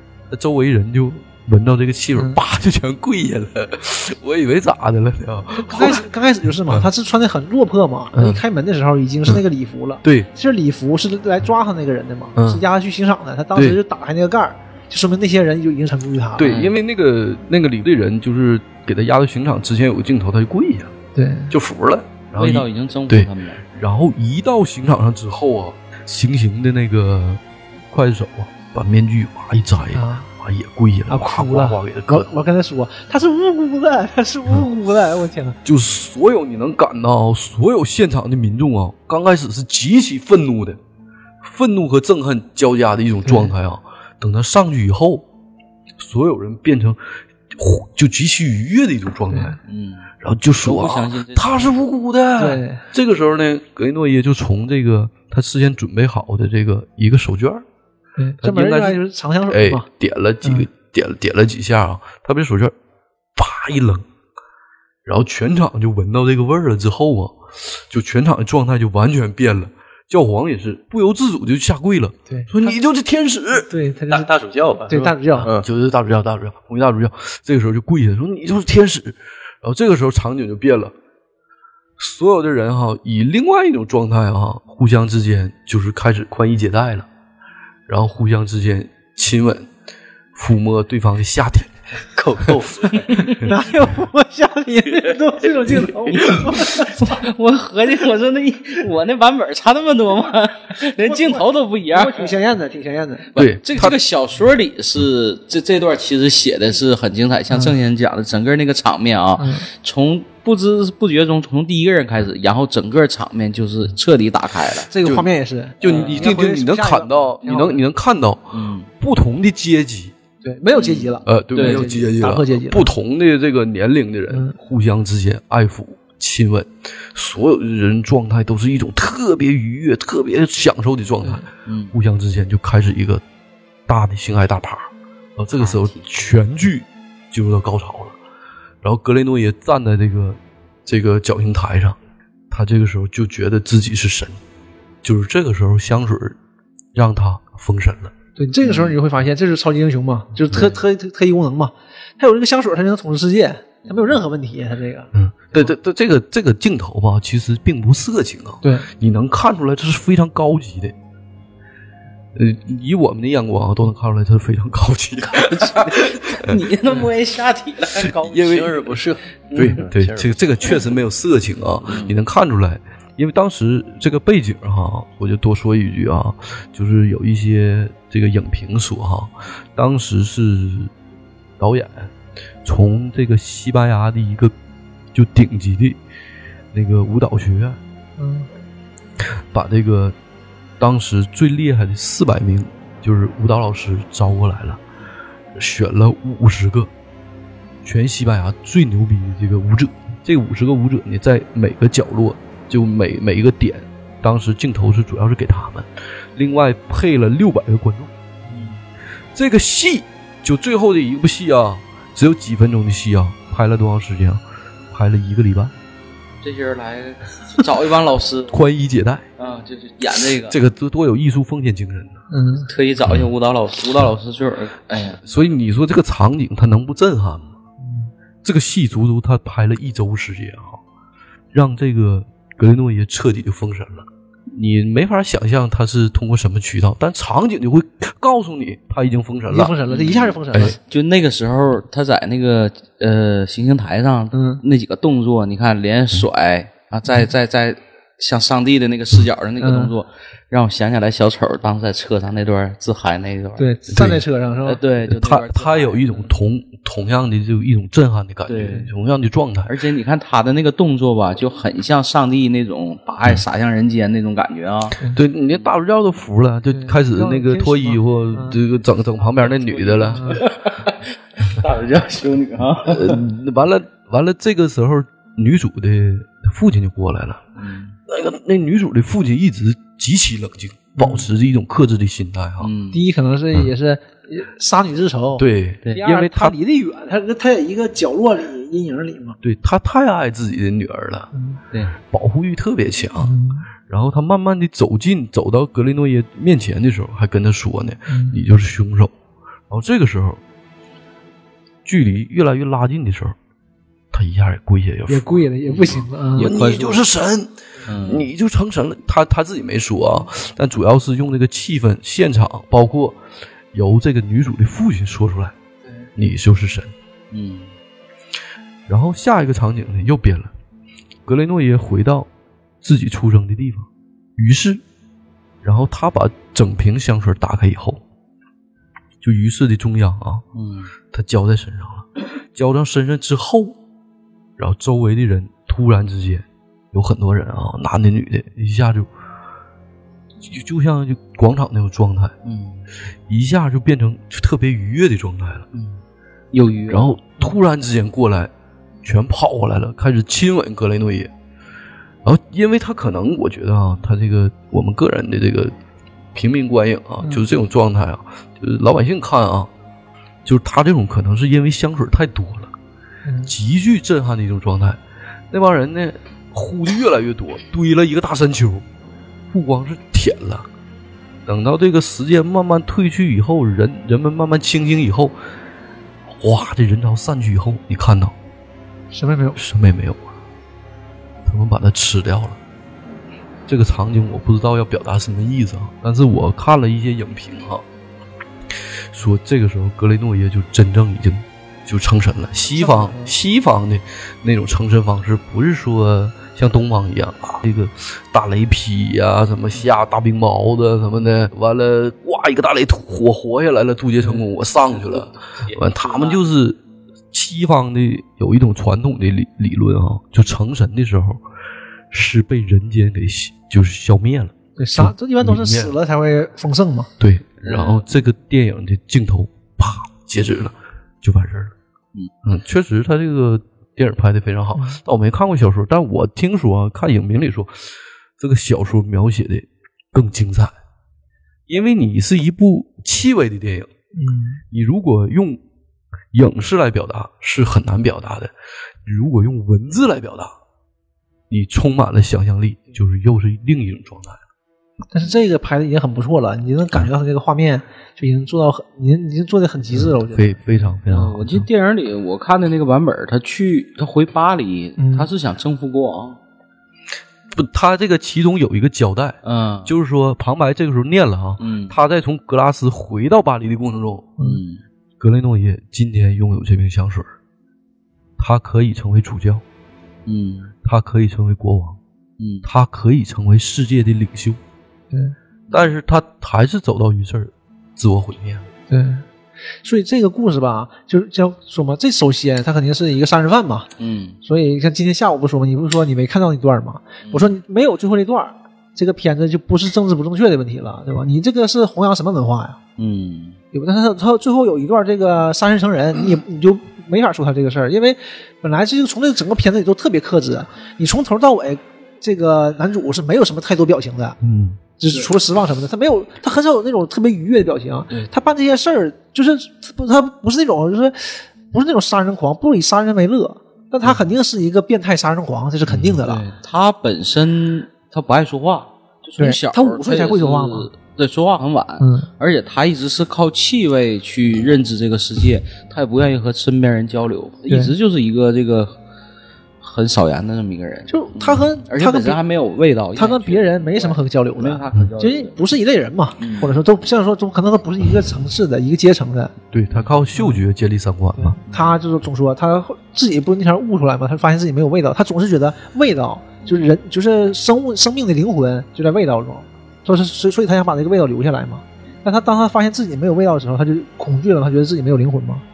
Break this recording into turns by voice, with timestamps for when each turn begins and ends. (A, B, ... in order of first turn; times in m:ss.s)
0:00.3-0:06.1 A
0:05.5-0:16.5 B
0:08.1-0:08.4 A
0:12.4-0:12.6 A
0:16.4-0:21.0 A
0:16.4-0:16.8 C
0:21.2-0:21.5 B
0:21.5-0:32.4 A
0:22.3-0:23.6 C
0:29.9-0:30.3 B
0:31.1-0:35.6 B
0:35.6-0:40.8 A
0:41.4-0:45.2 A
0:43.2-0:43.5 B
0:46.0-0:49.6 A
0:49.3-0:49.6 B
0:49.6-0:51.8 C
0:50.2-0:57.6 A
0:52.4-0:52.8 B
0:58.2-0:59.9 B
0:58.4-1:02.7 A
1:00.4-1:00.7 B
1:03.4-1:04.0 A
1:05.0-1:13.7 A
1:12.3-1:12.8 B
1:13.6-1:14.3 B
1:14.1-1:15.7 D
1:14.9-1:15.5 B
1:15.4-1:20.9 A
1:22.0-1:27.1 A
1:27.9-1:29.7 A
1:30.4-1:31.7 A
1:32.2-1:33.3 D
1:32.9-1:33.4 C
1:33.4-1:37.2 B
1:36.1-1:42.3 C
1:41.1-1:43.3 B
1:43.3-1:54.9 C
1:43.4-1:44.0 A
1:49.4-1:49.7 B
1:54.9-1:57.8 B
1:55.8-2:00.1 A
1:55.8-1:56.3 C
1:58.5-1:58.9 C
2:00.4-2:02.9 B
2:00.7-2:01.9 C
2:01.3-2:13.2 A
2:04.3-2:04.6 B
2:11.7-2:12.0 C
2:13.9-2:18.2 A
2:15.6-2:16.0 C
2:18.8-2:22.0 A
2:22.5-2:24.4 A
2:25.0-2:26.4 A
2:26.9-2:28.1 A
2:28.4-2:35.7 B
2:28.6-2:29.0 C
2:35.1-2:41.0 A
2:38.6-2:38.9 B
2:42.4-2:46.6 A
2:45.3-2:48.2 C
2:48.0-3:00.9 A
2:48.0-2:50.9 D
2:51.9-2:52.2 C
3:01.6-3:02.1 A
3:02.6-3:04.5 A
3:05.1-3:06.0 A
3:06.7-3:07.8 A
3:08.2-3:08.5 B
3:09.5-3:10.2 A
3:10.8-3:14.8 A
3:15.6-3:16.9 A
3:17.8-3:28.1 A
3:28.5-3:28.8 C
3:29.3-3:35.7 A
3:36.4-3:38.6 C
3:38.5-3:39.3 A
3:39.4-3:40.6 C
3:40.4-3:42.2 A
3:42.3-3:42.7 B
3:42.7-3:45.2 C
3:45.2-3:47.5 A
3:47.8-3:48.1 B
3:48.4-3:50.8 A
3:51.5-3:59.8 A
3:59.5-4:00.8 B
3:59.9-4:13.7 C
4:04.3-4:04.6 B
4:09.6-4:09.9 B
4:13.6-4:14.8 B
4:13.9-4:14.2 A
4:14.6-4:16.3 C
4:15.1-4:19.7 A
4:18.5-4:18.9 C
4:19.7-4:25.0 C
4:25.1-4:30.4 A
4:26.7-4:28.6 B
4:29.2-4:33.2 C
4:32.9-4:37.4 A
4:37.6-4:38.0 C
4:38.1-4:42.7 A
4:41.0-4:41.2 B
4:42.6-4:43.0 C
4:42.9-4:49.4 B
4:45.4-4:46.6 A
4:49.4-4:51.3 A
4:51.3-4:51.6 B
4:52.0-4:53.3 A
4:53.2-4:53.7 B
4:53.9-4:59.1 A
4:58.1-4:58.4 B
4:59.7-5:00.4 A
5:01.8-5:03.4 A
5:04.1-5:05.5 A
5:05.1-5:06.6 B
5:05.7-5:07.0 C
5:06.4-5:13.2 A
5:07.9-5:08.3 C
5:13.7-5:15.6 A
5:16.2-5:16.9 A
5:17.3-5:17.7 C
5:18.9-5:20.5 A
5:21.3-5:22.3 A
5:22.8-5:24.8 A
5:25.6-5:28.0 A
5:29.2-5:30.4 A
5:30.5-5:30.9 C
5:31.1-5:33.8 A
5:34.6-5:39.1 A
5:40.4-5:42.4 A
5:42.4-5:42.8 C
5:43.3-5:45.7 A
5:45.7-5:46.0 C
5:46.5-5:47.3 C
5:46.9-5:48.5 A
5:49.0-5:51.3 A
5:52.2-5:55.7 A
5:56.3-5:59.7 A
6:00.4-6:02.7 A
6:03.2-6:03.5 B
6:03.5-6:08.8 A
6:09.5-6:10.7 A
6:11.5-6:15.4 A
6:16.3-6:18.4 A
6:19.1-6:19.6 B
6:19.6-6:20.2 A
6:21.5-6:22.6 A
6:23.7-6:27.8 A
6:29.1-6:46.8 A
6:32.7-6:33.3 B
6:44.9-6:46.4 C
6:47.3-6:51.4 A
6:52.1-6:55.9 A
6:54.8-6:57.1 B
6:57.2-7:01.7 A
6:57.6-6:58.1 C
7:02.4-7:10.7 A
7:11.7-7:13.9 A
7:14.1-7:14.6 B
7:14.7-7:15.6 A
7:16.3-7:18.5 A
7:19.0-7:20.5 A
7:21.5-7:24.4 A
7:25.1-7:30.7 B
7:29.9-7:31.7 A
7:31.1-7:36.4 C
7:35.0-7:35.3 B
7:37.5-7:44.3 A
7:39.4-7:39.9 C
7:41.6-7:42.0 C
7:44.4-7:44.8 C
7:45.2-7:47.3 A
7:48.4-7:49.6 A
7:50.3-7:50.7 C
7:50.8-7:52.0 A
7:52.4-7:52.7 C
7:52.6-7:54.6 A
7:55.7-7:56.0 C
7:55.7-7:58.7 A
7:58.9-7:59.2 B
7:59.8-8:03.9 B
8:04.0-8:04.4 C
8:04.4-8:12.8 B
8:07.2-8:07.5 C
8:13.0-8:13.6 C
8:13.7-8:24.4 B
8:24.4-8:24.8 A
8:25.0-8:36.4 B
8:35.9-8:49.0 C
8:39.4-8:40.9 B
8:42.0-8:42.3 B
8:47.7-8:47.9 B
8:49.8-8:55.6 C
8:51.1-8:52.4 B
8:53.2-8:59.5 B
8:56.4-8:56.8 C
8:59.7-9:01.6 A
9:01.4-9:15.6 B
9:01.7-9:02.0 C